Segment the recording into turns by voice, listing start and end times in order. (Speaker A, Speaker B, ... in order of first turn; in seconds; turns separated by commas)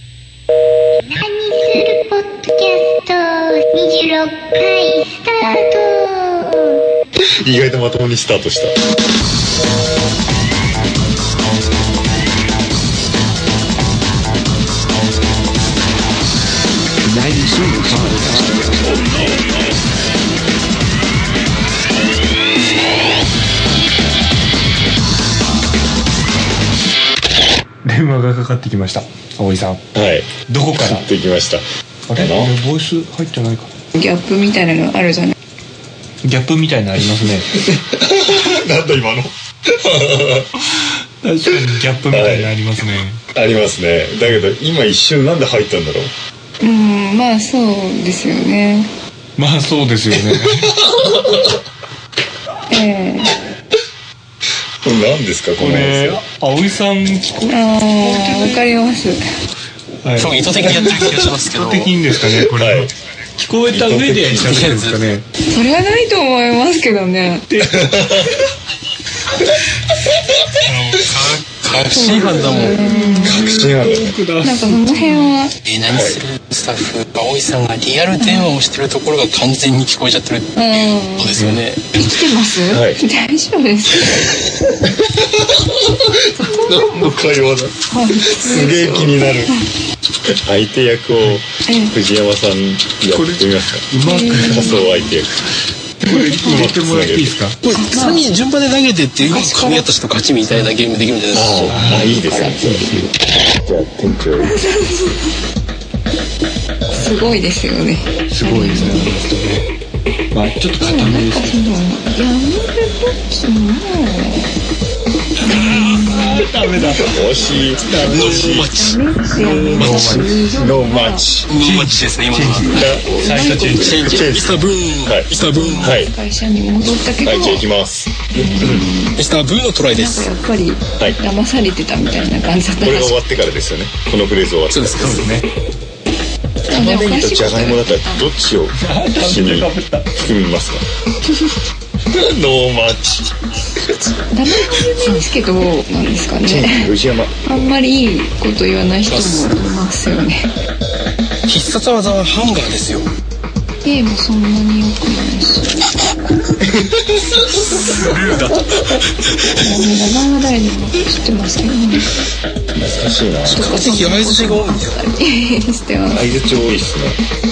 Speaker A: 1.1-6.8, Speaker B: 7.2-8.7, Speaker C: 17.0-19.1, Speaker D: 27.8-29.9, Speaker B: 29.9-31.6, Speaker D: 30.5-31.1, Speaker D: 32.1-33.7, Speaker B: 32.2-32.5, Speaker E: 33.9-35.3, Speaker D: 36.2-37.5, Speaker B: 37.6-40.5, Speaker D: 41.2-43.2, Speaker B: 41.6-42.5, Speaker B: 43.3-46.1, Speaker E: 46.6-48.9, Speaker D: 49.4-50.7, Speaker E: 52.7-53.3, Speaker B: 54.8-56.2, Speaker D: 55.6-58.7, Speaker E: 57.5-59.2, Speaker D: 60.0-65.2, Speaker F: 60.2-61.9, Speaker B: 62.5-62.9, Speaker B: 63.7-64.6, Speaker F: 64.4-65.0, Speaker E: 65.5-67.5, Speaker D: 67.5-68.2, Speaker B: 67.6-68.4, Speaker F: 70.6-72.8, Speaker E: 71.9-73.5, Speaker D: 72.0-75.3, Speaker B: 73.2-74.1, Speaker E: 74.4-75.5, Speaker F: 75.6-82.0, Speaker B: 75.9-76.2, Speaker E: 78.2-78.5, Speaker E: 80.5-81.4, Speaker D: 81.4-81.6, Speaker E: 82.0-84.3, Speaker B: 82.7-83.0, Speaker B: 85.0-89.5, Speaker E: 86.3-87.2, Speaker E: 87.9-89.7, Speaker B: 90.3-93.8, Speaker D: 91.1-91.4, Speaker E: 91.6-92.0, Speaker D: 93.1-94.8, Speaker E: 94.0-94.9, Speaker B: 94.4-95.4, Speaker D: 96.0-97.6, Speaker B: 96.1-97.3, Speaker F: 97.6-101.6, Speaker E: 97.7-98.3, Speaker E: 99.2-99.9, Speaker D: 100.5-100.7, Speaker B: 101.3-102.8, Speaker E: 101.5-103.1, Speaker D: 101.7-102.2, Speaker B: 103.6-104.6, Speaker E: 104.4-105.4, Speaker E: 106.9-109.2, Speaker D: 108.3-109.7, Speaker D: 110.3-111.6, Speaker E: 110.8-114.5, Speaker E: 115.4-117.6, Speaker D: 115.5-117.1, Speaker B: 117.0-118.7, Speaker D: 117.8-118.6, Speaker F: 118.0-120.3, Speaker E: 118.5-121.3, Speaker D: 119.7-120.3, Speaker B: 120.5-121.5, Speaker F: 121.5-122.7, Speaker D: 121.6-124.1, Speaker E: 122.6-124.4, Speaker B: 122.8-123.1, Speaker F: 123.8-126.0, Speaker B: 124.0-125.3, Speaker E: 125.4-127.6, Speaker B: 125.8-126.1, Speaker B: 127.2-128.8, Speaker E: 128.3-129.2, Speaker F: 129.2-130.3, Speaker E: 129.9-133.2, Speaker B: 132.8-135.2, Speaker F: 134.7-135.2, Speaker D: 135.0-135.4, Speaker E: 136.7-138.3, Speaker B: 136.7-140.8, Speaker D: 138.7-140.1, Speaker B: 142.1-143.3, Speaker E: 143.8-146.9, Speaker B: 146.4-147.3, Speaker E: 147.4-150.5, Speaker F: 149.1-149.6, Speaker F: 151.4-153.1, Speaker E: 153.8-155.8, Speaker F: 157.4-159.0, Speaker E: 157.7-158.2, Speaker E: 159.6-162.1, Speaker B: 162.8-163.6, Speaker F: 163.4-164.9, Speaker E: 163.5-166.3, Speaker B: 166.1-167.2